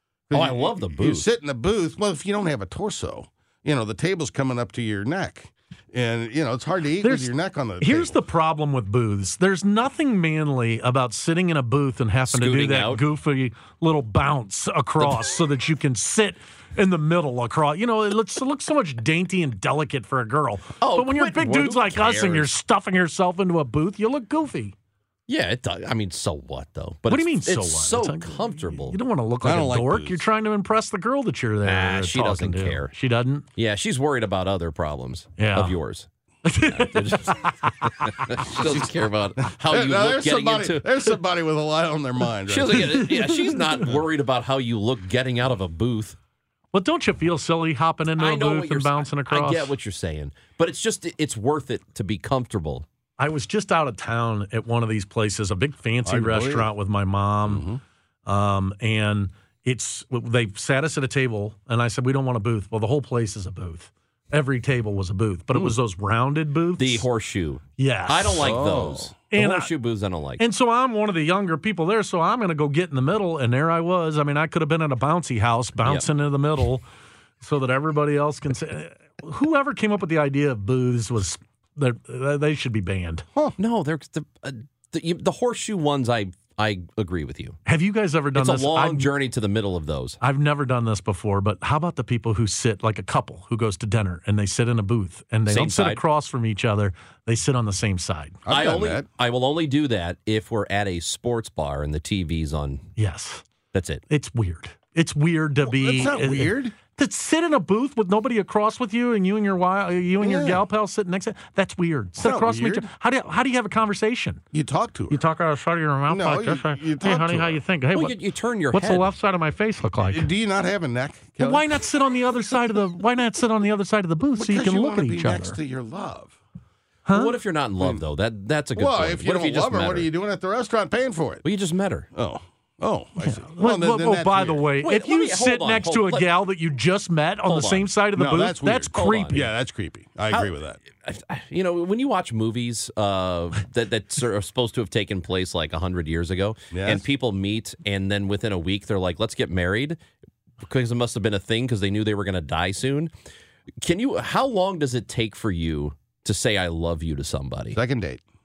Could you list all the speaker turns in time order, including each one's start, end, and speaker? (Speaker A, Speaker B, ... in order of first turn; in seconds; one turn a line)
Speaker A: 0.3-8.2
Speaker B: 0.3-1.3
Speaker C: 7.0-24.7
Speaker B: 12.3-13.0
Speaker B: 20.8-22.5
Speaker B: 25.3-29.0
Speaker C: 27.1-33.5
Speaker A: 29.4-30.3
Speaker B: 31.6-32.9
Speaker B: 33.6-36.1
Speaker C: 35.4-35.8
Speaker C: 36.5-37.9
Speaker B: 36.6-37.5
Speaker B: 38.0-40.9
Speaker A: 38.5-43.3
Speaker B: 42.5-46.2
Speaker C: 46.7-49.7
Speaker B: 48.1-52.9
Speaker C: 53.2-57.7
Speaker A: 56.0-56.7
Speaker A: 57.5-57.8
Speaker C: 58.2-67.1
Speaker B: 66.8-70.4
Speaker C: 67.8-68.6
Speaker A: 68.3-69.1
Speaker C: 69.3-69.7
Speaker C: 70.4-76.8
Speaker B: 75.8-76.1
Speaker C: 77.4-83.3
Speaker B: 83.6-87.6
Speaker C: 87.7-89.1
Speaker B: 88.3-90.2
Speaker C: 90.2-98.4
Speaker B: 95.5-96.0
Speaker A: 98.5-99.1
Speaker B: 98.5-102.9
Speaker C: 103.0-103.4
Speaker B: 103.7-104.0
Speaker C: 104.1-114.4
Speaker A: 105.7-106.8
Speaker A: 110.2-110.6
Speaker A: 112.2-112.9
Speaker A: 114.5-115.2
Speaker C: 115.1-118.2
Speaker A: 116.1-117.6
Speaker B: 117.9-119.1
Speaker C: 118.7-120.3
Speaker A: 120.0-121.7
Speaker C: 121.4-125.6
Speaker A: 124.4-126.4
Speaker C: 127.1-127.4
Speaker B: 127.1-130.1
Speaker A: 128.8-131.4
Speaker B: 131.4-132.1
Speaker A: 132.1-134.6
Speaker C: 133.2-139.5
Speaker B: 134.8-136.3
Speaker B: 137.5-137.9
Speaker A: 138.2-140.8
Speaker B: 138.9-139.4
Speaker B: 140.3-150.0
Speaker A: 146.7-147.0
Speaker B: 150.6-153.1
Speaker B: 153.8-157.8
Speaker A: 157.7-158.2